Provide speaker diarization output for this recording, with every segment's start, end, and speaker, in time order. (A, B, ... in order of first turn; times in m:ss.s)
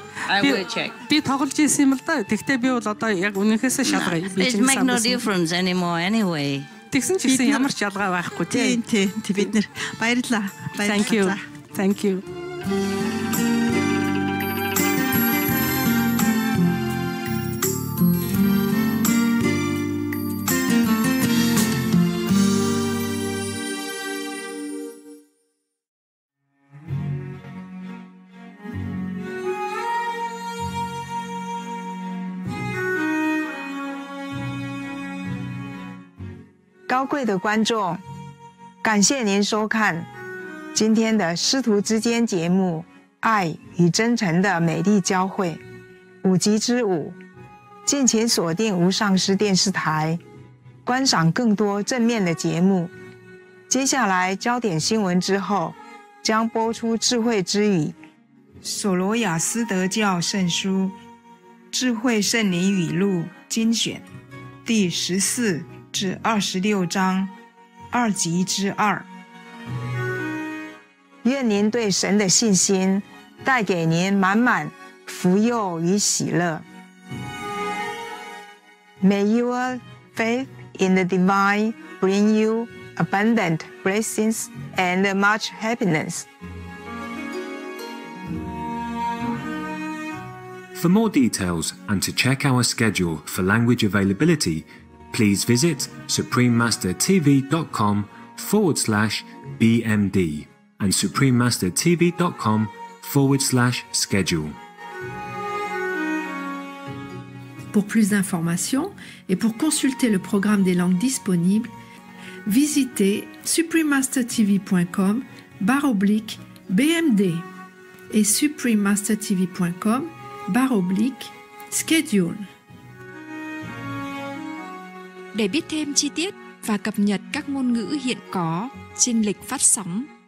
0:00.3-0:01.0 A
0:00.4-0:05.2 B
0:03.9-0:06.7 A
0:06.9-0:08.8 B
0:07.3-0:07.7 C
0:08.5-0:11.4 C
0:10.8-0:12.2 B
0:36.9-0:38.0 D
0:38.8-0:40.1 D
0:40.7-0:45.6 D
0:46.2-0:47.2 D
0:47.9-0:50.2 D
0:50.8-0:52.9 D
0:53.7-0:58.0 D
0:58.6-1:00.9 D
1:01.7-1:04.0 D
1:04.6-1:07.3 D
1:07.9-1:09.1 D
1:11.2-1:16.6 D
1:19.0-1:26.3 D
1:30.8-1:44.6 E
1:47.7-1:51.7 F
1:52.5-1:57.5 F
1:58.1-2:02.5 F
2:05.3-2:10.1 G